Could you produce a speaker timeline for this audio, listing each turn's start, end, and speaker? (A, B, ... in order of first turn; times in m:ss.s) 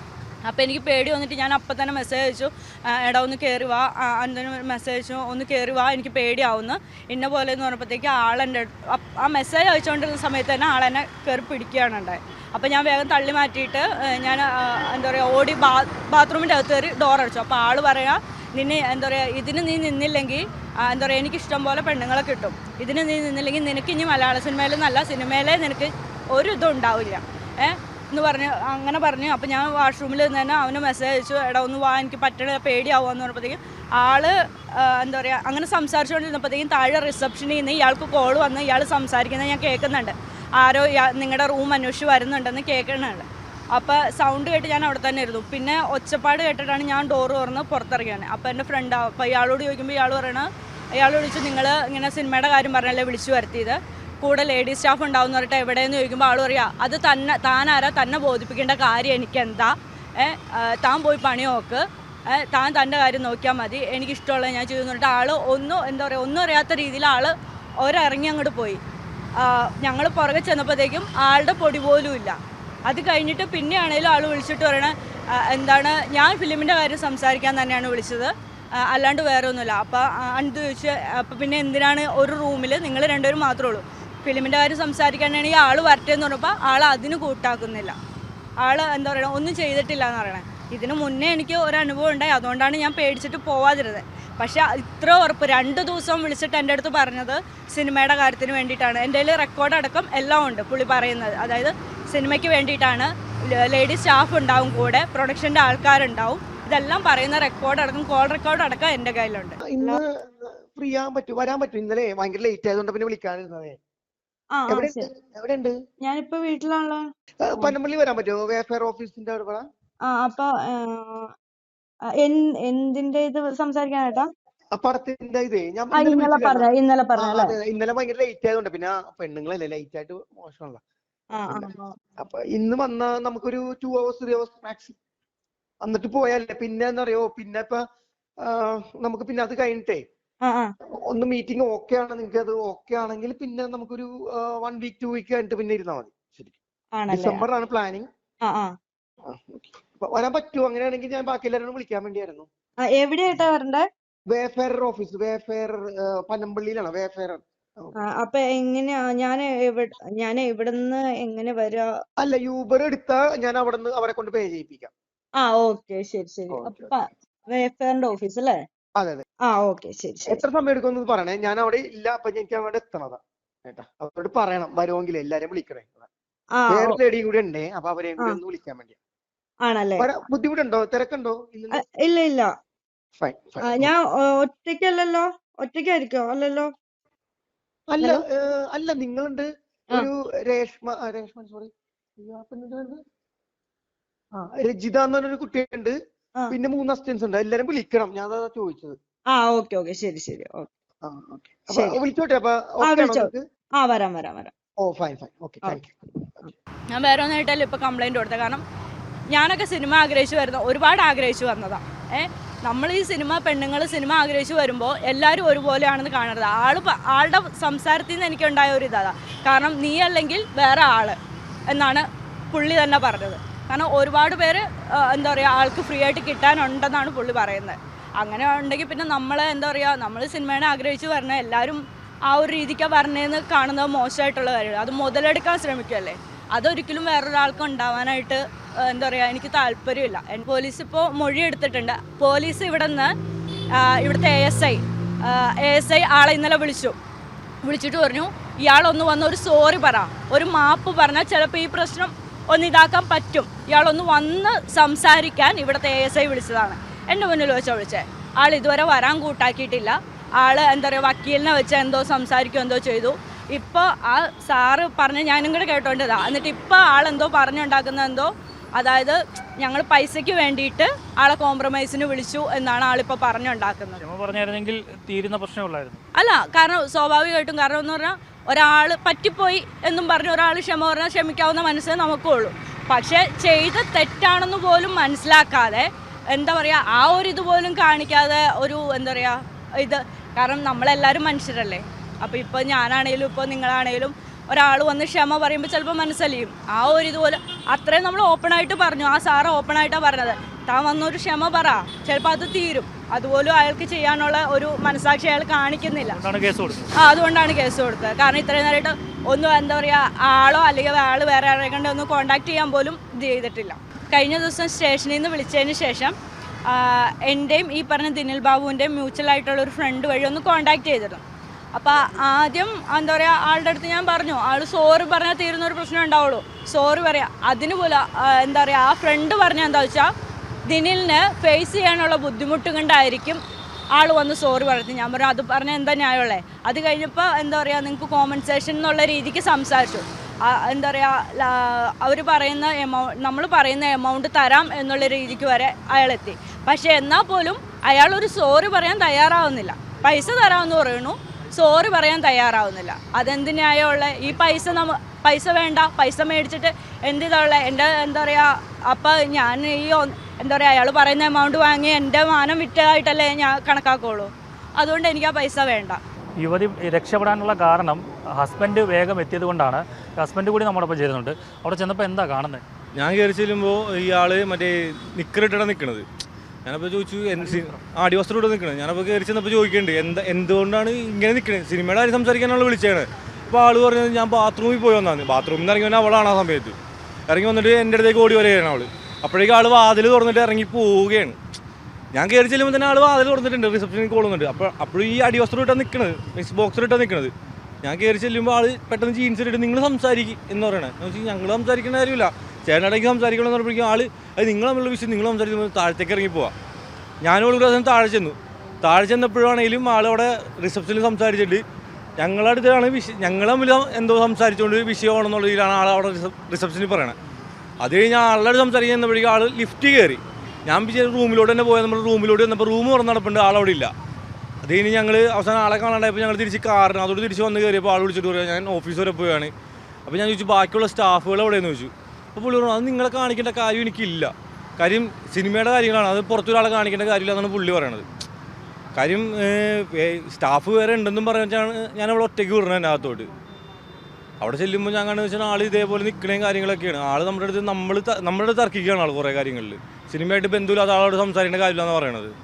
0:00.4-1:08.8 A
1:09.4-1:28.0 A
1:28.6-1:49.6 A
1:49.6-1:53.8 B
1:54.5-1:55.0 C
1:54.7-1:55.7 B
1:56.0-1:57.0 C
1:57.4-1:59.6 B
2:00.0-2:01.3 C
2:02.1-2:04.3 C
2:04.7-2:10.8 B
2:05.9-2:07.5 C
2:11.3-2:12.0 C
2:11.5-2:15.0 B
2:15.8-2:17.8 B
2:18.4-2:20.0 B
2:21.1-2:26.6 B
2:26.9-2:27.4 C
2:27.1-2:28.0 B
2:28.4-2:28.7 C
2:29.2-2:32.5 B
2:32.9-2:33.8 C
2:34.3-2:38.0 B
2:38.0-2:41.9 C
2:42.2-2:44.9 B
2:45.4-2:48.6 C
2:46.5-2:46.9 B
2:49.0-2:49.2 B
2:49.5-2:50.4 C
2:50.3-2:56.1 B
2:56.6-2:57.0 C
2:56.7-2:59.0 B
2:59.6-3:00.0 C
3:00.0-3:01.8 B
3:01.7-3:02.5 C
3:03.2-3:03.9 B
3:03.6-3:06.7 C
3:07.9-3:13.0 B
3:14.3-3:15.9 B
3:16.5-3:19.0 B
3:19.3-3:20.7 C
3:21.0-3:23.4 B
3:21.7-3:22.0 C
3:22.8-3:24.5 C
3:24.8-3:26.0 B
3:26.9-3:28.6 A
3:29.3-3:41.2 A
3:41.7-4:03.1 A
4:03.7-4:07.0 A
4:07.6-4:34.0 A
4:34.0-4:36.0 D
4:36.1-5:06.2 A
5:06.0-5:06.9 D
5:07.0-5:16.1 A
5:16.7-5:21.2 A
5:21.8-5:30.1 A
5:30.7-5:33.4 A
5:33.9-6:06.0 A
6:06.4-6:12.6 D
6:13.0-6:16.0 E
6:16.6-6:26.8 E
6:17.4-6:17.7 D
6:27.3-6:31.4 E
6:32.1-6:37.3 E
6:37.8-6:46.5 E
6:47.2-6:51.6 E
6:52.2-6:57.2 E
6:57.8-7:03.9 E
7:04.6-7:09.5 E
7:10.1-7:18.0 E
7:19.0-7:23.3 E
7:24.4-7:32.4 E